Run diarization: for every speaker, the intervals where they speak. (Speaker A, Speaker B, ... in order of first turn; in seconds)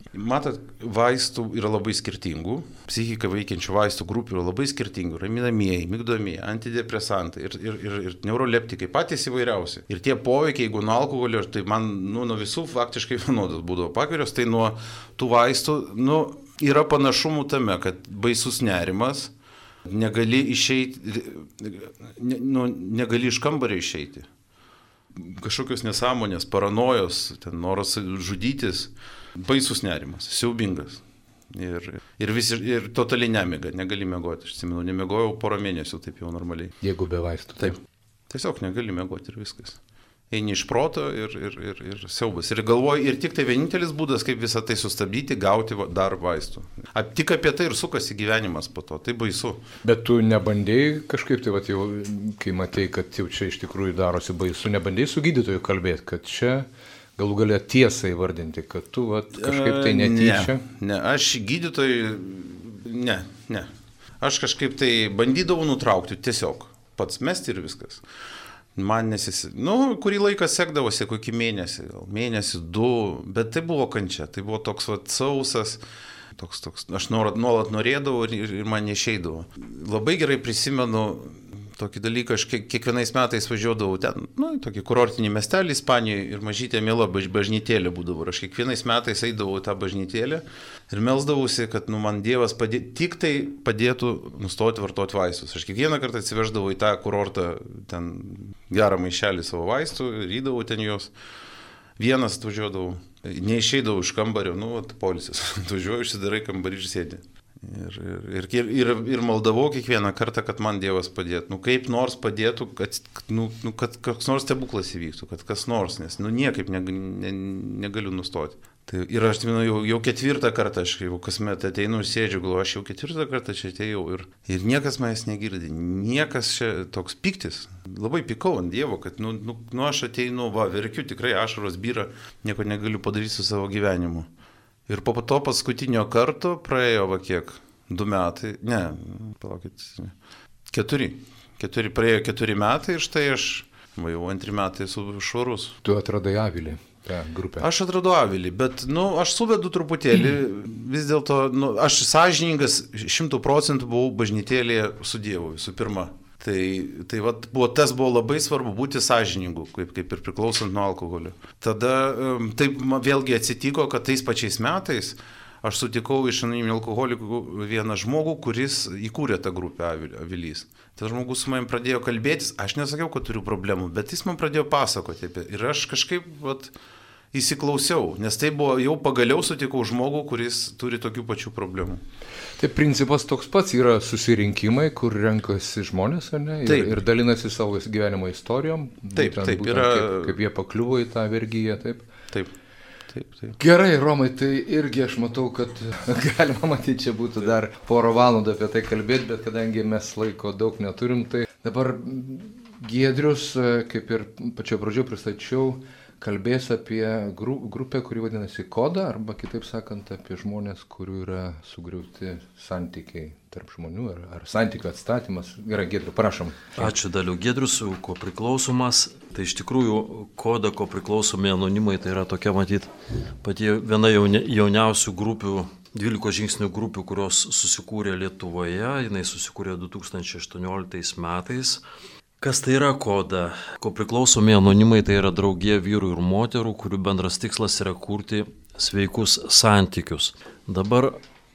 Speaker A: 0.1-19.3, 19.9-24.3, 25.1-36.8, 38.3-39.8, 40.3-49.6, 59.4-63.7, 64.2-68.0, 68.7-75.8, 76.3-101.1, 102.0-134.3, 134.9-140.1, 140.7-145.8, 147.6-176.7, 177.3-182.0, 186.7-187.0, 189.1-190.3, 193.1-193.6
Speaker B: 36.8-37.8, 49.8-60.6, 145.8-147.7, 182.6-192.1, 193.6-216.9
Speaker C: 216.8-231.8, 232.4-241.2